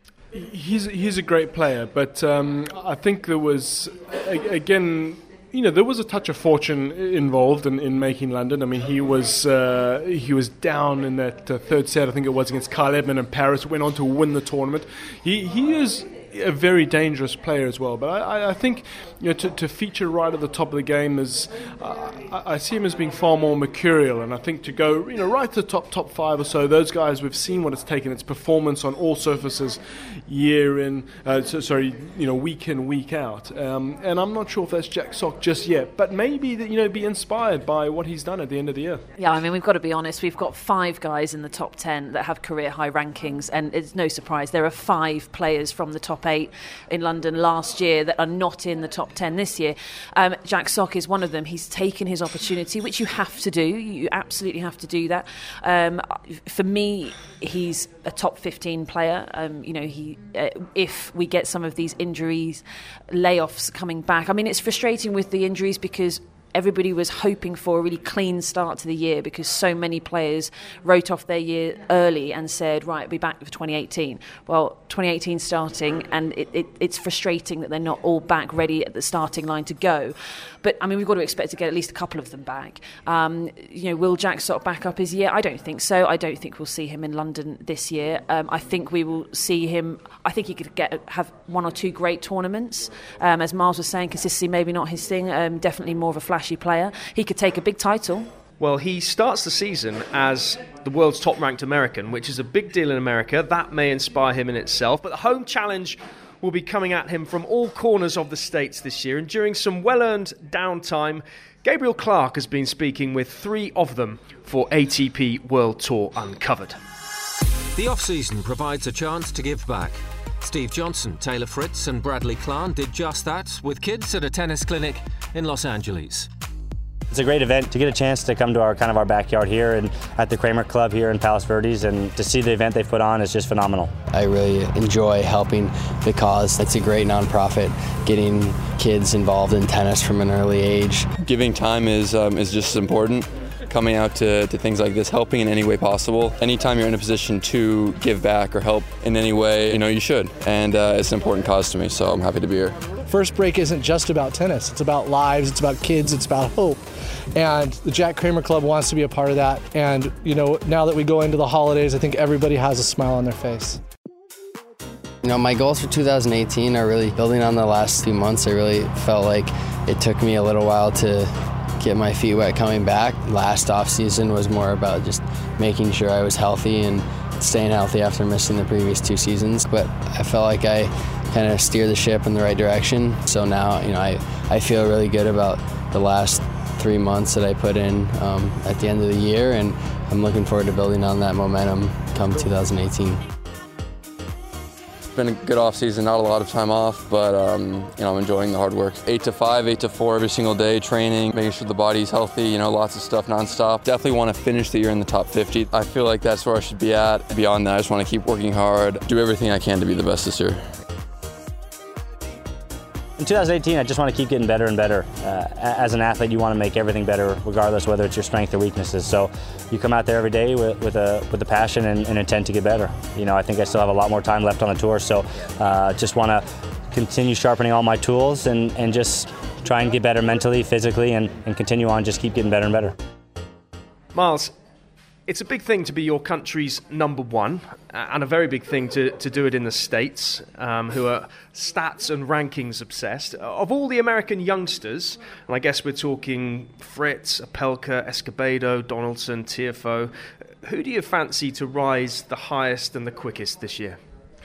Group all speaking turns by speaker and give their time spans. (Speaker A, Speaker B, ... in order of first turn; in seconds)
Speaker A: 0.3-39.0
Speaker B: 39.2-98.3
Speaker C: 98.6-116.8, 234.1-234.5, 235.3-250.1, 250.6-254.0
Speaker D: 117.8-126.3
Speaker E: 127.1-134.0, 213.2-232.9
Speaker F: 134.1-141.1, 165.2-193.2
Speaker G: 141.2-152.8, 195.1-210.7
Speaker H: 153.1-156.8, 157.3-163.8